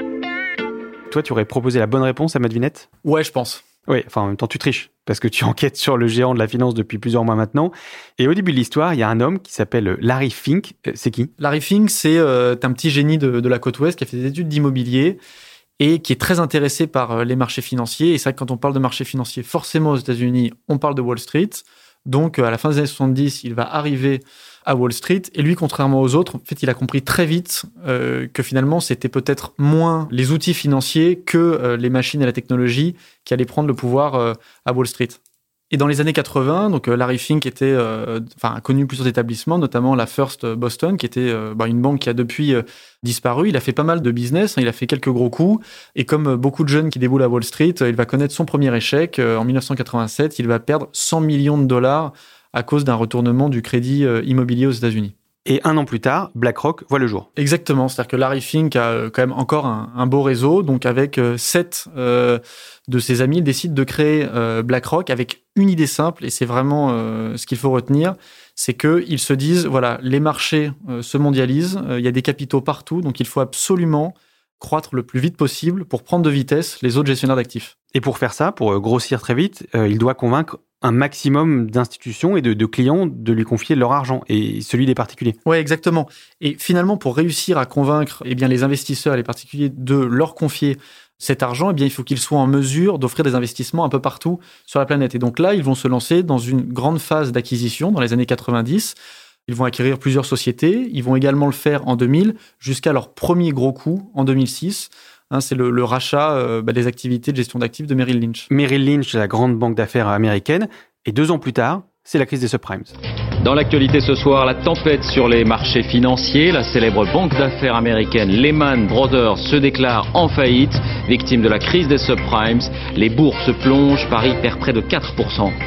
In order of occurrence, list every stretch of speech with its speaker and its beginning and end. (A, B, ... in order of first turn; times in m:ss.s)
0:01.1-0:02.9 A
0:03.0-0:03.6 B
0:03.9-0:11.3 A
0:11.4-0:15.2 B
0:15.8-0:35.2 B
0:35.7-0:55.2 B
0:55.5-0:57.3 A
0:57.4-1:17.7 B
1:17.9-1:25.4 A
1:25.5-1:48.5 B
1:48.5-1:53.0 A
1:53.4-2:05.6 C